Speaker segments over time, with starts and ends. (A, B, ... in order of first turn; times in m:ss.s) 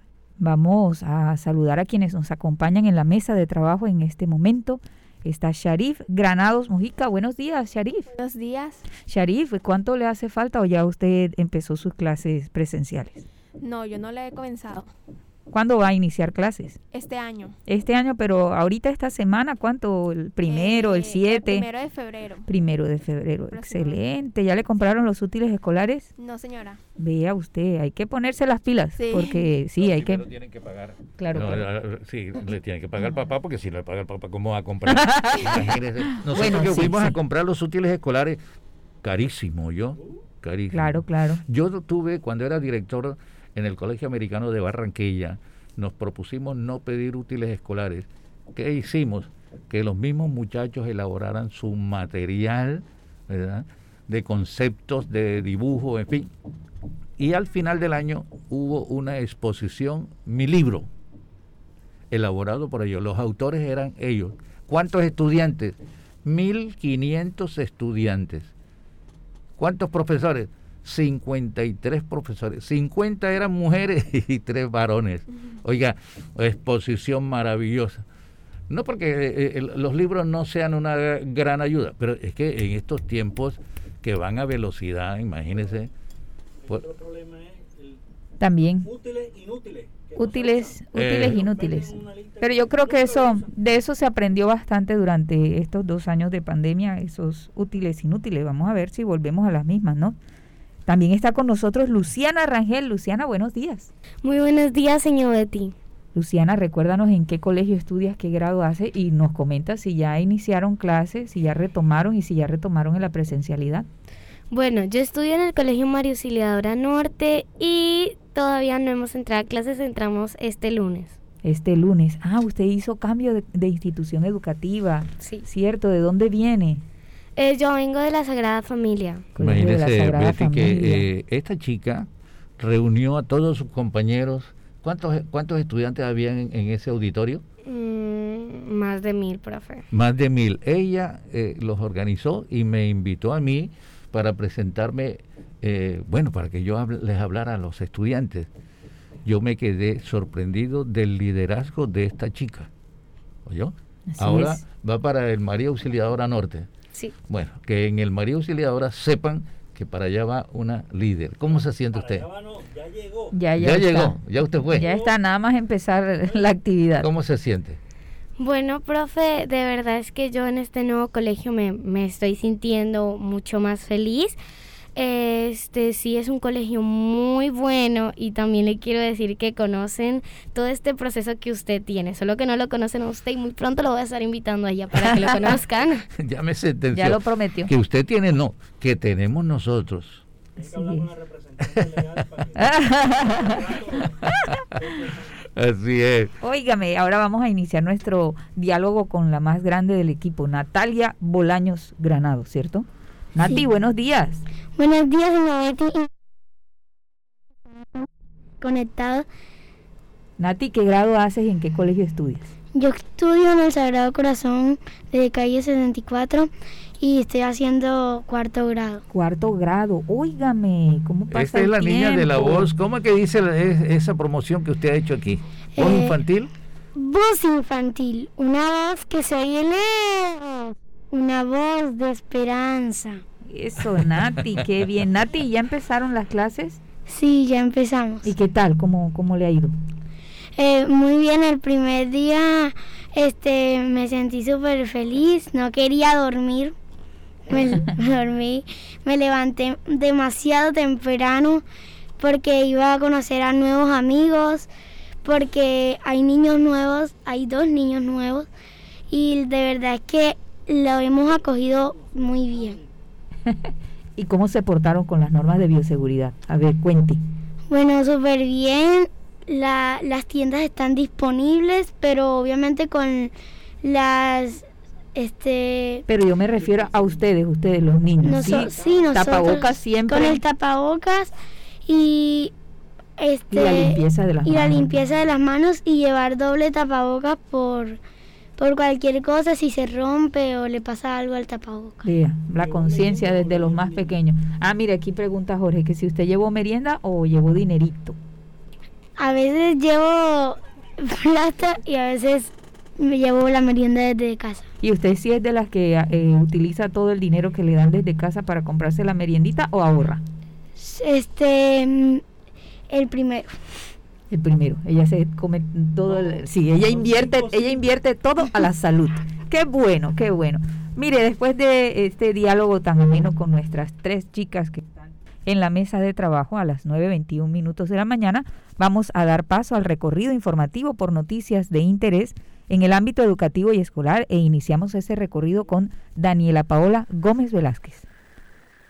0:00.4-0:08.1 A
0:08.1-0:08.8 B
0:09.1-0:13.2 A
0:13.6-0:14.9 B
0:15.5-0:16.8 A
0:16.9-0:17.5 B
0:17.6-0:21.7 A
0:20.5-0:22.5 B
0:22.4-0:26.1 A
0:23.5-0:24.0 B
0:26.2-0:26.8 B
0:27.0-0:30.2 A
0:29.0-0:29.4 B
0:29.8-0:38.4 C
0:31.2-0:31.6 A
0:34.9-0:35.6 A
0:36.2-0:37.1 A
0:39.0-0:56.3 C
0:40.7-0:41.4 A
0:57.2-1:00.9 C
1:02.1-1:08.5 C
1:09.6-1:18.0 C
1:18.7-1:25.9 C
1:25.5-1:25.9 D
1:26.6-1:28.0 D
1:28.4-1:28.9 A
1:28.8-1:33.5 D
1:30.2-1:40.2 A
1:30.9-1:31.4 C
1:40.8-1:43.9 A
1:44.2-1:45.7 E
1:46.1-1:53.9 A
1:54.5-2:01.2 E
2:01.4-2:06.8 A
2:05.2-2:05.4 E
2:07.4-2:09.3 E
2:09.3-2:11.0 A
2:09.4-2:12.1 C
2:12.6-2:17.4 C
2:17.6-2:19.8 E
2:19.9-2:28.5 C
2:29.2-2:32.7 C
2:33.5-2:36.7 C
2:34.1-2:34.6 A
2:37.3-2:42.2 C
2:41.5-2:43.4 D
2:43.3-2:44.2 A
2:43.6-2:44.9 C
2:44.7-2:45.2 D
2:44.7-2:47.1 A
2:46.2-2:46.5 D
2:47.0-2:47.8 C
2:48.4-2:54.4 E
2:54.9-3:06.0 E
3:05.0-3:05.5 A
3:06.2-3:10.2 C
3:07.0-3:07.7 A
3:10.6-3:14.2 D
3:10.7-3:11.0 A
3:12.6-3:13.5 A
3:14.7-3:15.4 D
3:15.5-3:16.3 C
3:16.4-3:24.4 A
3:23.4-3:23.6 F
3:24.8-3:26.1 F
3:28.6-3:29.3 F
3:30.4-3:32.5 A
3:32.7-3:39.0 F
3:39.1-3:42.7 A
3:41.3-3:46.5 C
3:45.8-3:46.2 F
3:47.0-3:53.2 F
3:53.5-3:56.8 A
3:57.1-3:58.3 F
3:58.2-3:59.7 A
4:00.6-4:06.7 F
4:07.5-4:11.6 F
4:12.2-4:14.7 F
4:15.2-4:18.5 F
4:19.1-4:22.8 F
4:21.2-4:22.8 D
4:23.5-4:27.2 A
4:27.7-4:34.6 F
4:35.1-4:36.0 F
4:36.1-4:40.4 A
4:36.5-4:37.2 D
4:38.2-4:41.3 F
4:38.6-4:39.2 D
4:41.9-4:42.5 F
4:43.2-4:48.0 F
4:43.5-4:44.9 A
4:48.6-4:52.0 F
4:52.0-4:58.2 A
4:52.6-4:54.1 D
4:59.2-5:04.7 F
5:04.8-5:10.2 A
5:10.8-5:12.2 F
5:12.9-5:13.6 F
5:14.3-5:38.0 A
5:16.1-5:17.8 D